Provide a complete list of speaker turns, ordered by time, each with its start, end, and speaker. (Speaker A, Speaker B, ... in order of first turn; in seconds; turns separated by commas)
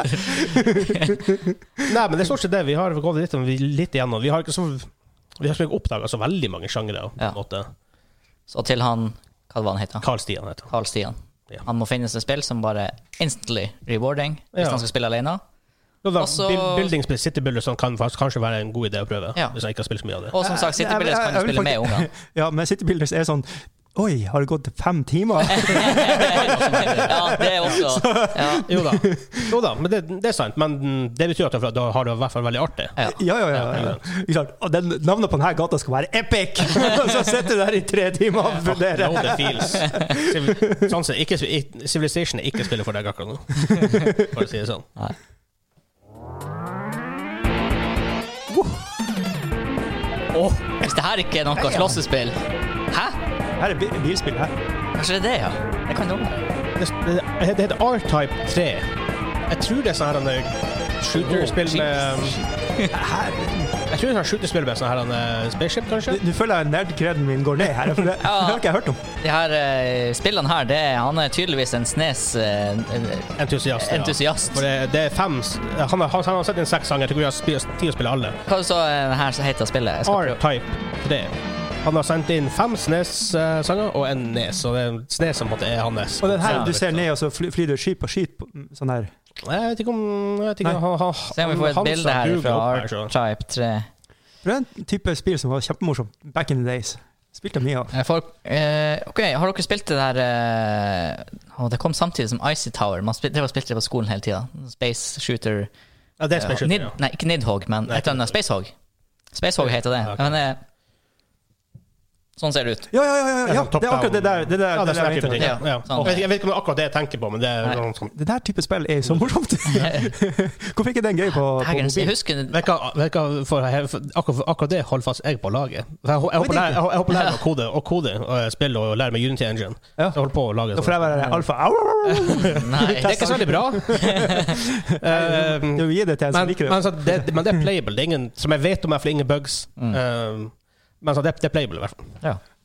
Speaker A: 0.3-1.5, Speaker B: 1.9-7.7, Speaker C: 8.5-10.1, Speaker B: 10.0-10.7, Speaker C: 10.7-15.4, Speaker B: 14.5-14.8, Speaker B: 16.0-20.4, Speaker C: 16.2-16.9, Speaker C: 20.3-22.1, Speaker A: 20.4-29.6, Speaker C: 25.5-28.7, Speaker B: 26.2-27.8, Speaker B: 28.6-33.0, Speaker A: 33.1-40.9, Speaker B: 33.5-34.0, Speaker B: 38.6-44.9, Speaker A: 48.5-48.8, Speaker C: 50.3-52.4, Speaker A: 51.6-52.0, Speaker C: 52.9-53.2, Speaker A: 53.6-54.5, Speaker C: 55.0-56.3, Speaker B: 56.8-58.9, Speaker B: 59.5-62.4, Speaker C: 61.2-62.9, Speaker A: 62.9-63.8, Speaker B: 63.9-66.2, Speaker A: 66.1-69.0, Speaker C: 68.2-68.6, Speaker C: 69.2-74.6, Speaker B: 73.4-78.4, Speaker C: 78.5-80.4, Speaker B: 80.1-87.0, Speaker A: 86.2-89.1, Speaker C: 86.4-86.7, Speaker B: 89.4-93.1, Speaker C: 91.3-93.9, Speaker A: 94.4-97.9, Speaker C: 97.9-105.7, Speaker B: 106.2-107.0, Speaker C: 106.4-108.7, Speaker B: 107.9-108.3, Speaker C: 109.3-110.6, Speaker B: 110.0-110.3, Speaker C: 112.4-112.9, Speaker A: 112.9-116.1, Speaker B: 113.5-118.1, Speaker C: 115.4-116.2, Speaker A: 118.1-122.1, Speaker C: 119.8-120.1, Speaker C: 121.6-122.6, Speaker B: 122.5-131.2, Speaker A: 126.4-126.8, Speaker A: 130.7-137.7, Speaker B: 132.3-134.2, Speaker C: 132.5-134.3, Speaker B: 135.0-142.2